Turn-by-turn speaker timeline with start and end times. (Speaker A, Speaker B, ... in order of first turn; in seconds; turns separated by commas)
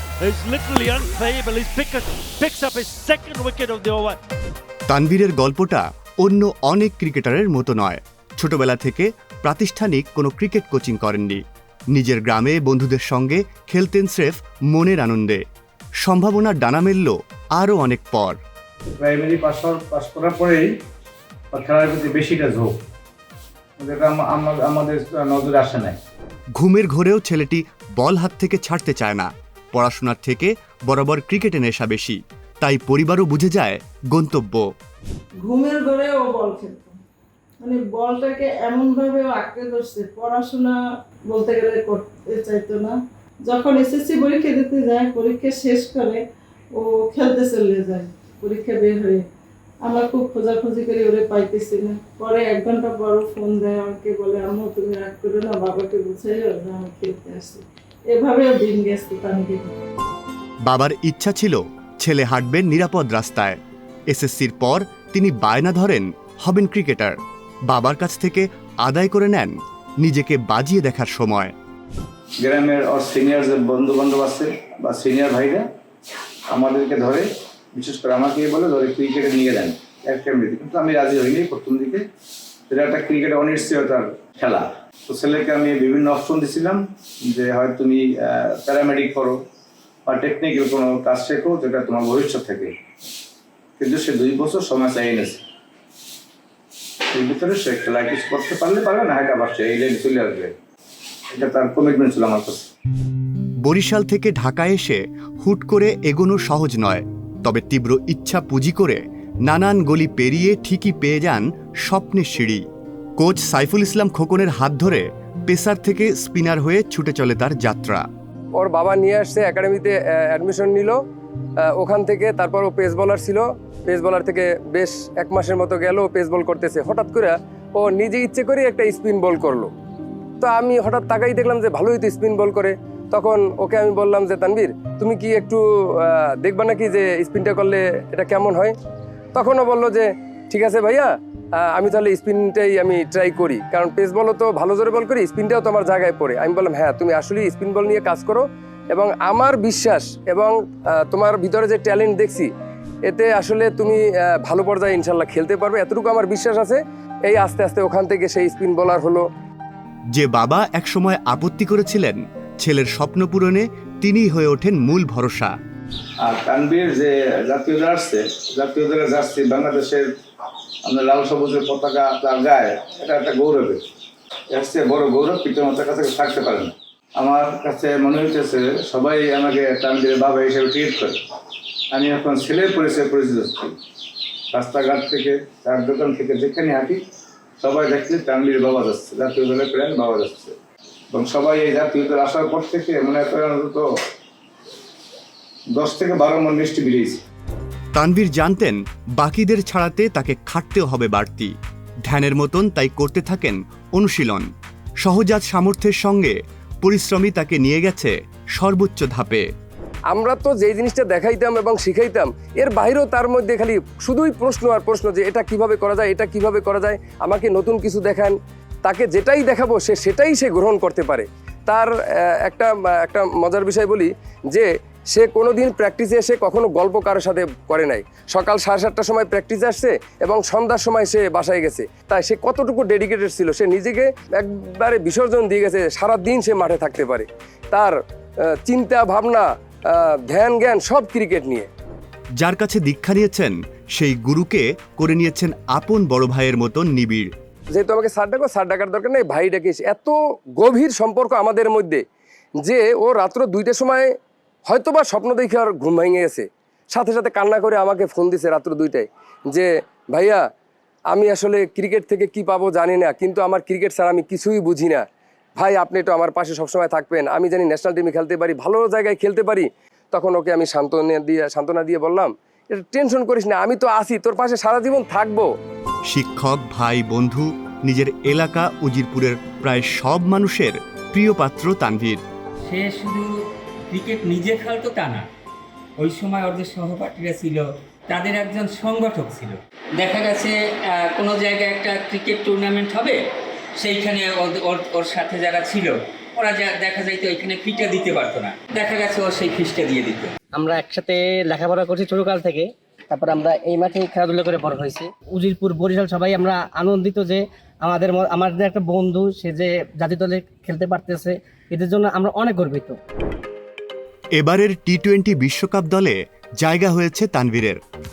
Speaker A: 0.2-4.2, Speaker B: 4.9-15.4, Speaker B: 16.0-18.4, Speaker C: 19.0-20.7, Speaker C: 21.5-22.8, Speaker C: 23.8-26.0, Speaker B: 26.5-34.6, Speaker D: 35.4-37.0, Speaker D: 37.6-46.2, Speaker D: 46.7-49.2, Speaker D: 49.8-59.7, Speaker B: 60.6-63.6, Speaker B: 64.1-67.2, Speaker B: 67.7-71.5, Speaker C: 72.4-75.7, Speaker C: 76.5-82.0, Speaker C: 82.7-89.4, Speaker C: 90.1-92.7, Speaker C: 93.8-95.4, Speaker C: 97.1-100.5, Speaker C: 101.3-102.7, Speaker B: 103.6-112.6, Speaker B: 113.2-118.0, Speaker E: 118.5-121.0, Speaker E: 121.7-129.7, Speaker E: 130.4-138.7, Speaker E: 139.3-152.5, Speaker E: 153.1-159.2, Speaker B: 160.1-165.5, Speaker C: 166.2-170.1, Speaker C: 170.8-173.9, Speaker C: 174.5-181.2, Speaker C: 181.9-183.8, Speaker C: 184.5-187.0, Speaker C: 187.6-190.6, Speaker C: 191.1-193.8, Speaker C: 195.7-197.2, Speaker B: 197.9-201.5, Speaker B: 202.0-204.5, Speaker B: 205.0-209.4, Speaker E: 210.1-237.9, Speaker E: 238.6-241.7, Speaker B: 242.4-247.3, Speaker E: 247.7-252.0, Speaker E: 252.6-254.1, Speaker E: 254.7-260.4, Speaker E: 261.1-265.0, Speaker E: 265.6-275.5, Speaker B: 276.1-282.2, Speaker F: 282.6-283.3, Speaker F: 283.9-285.3, Speaker F: 286.0-293.2, Speaker F: 293.8-300.3, Speaker G: 300.5-313.0, Speaker B: 314.4-317.8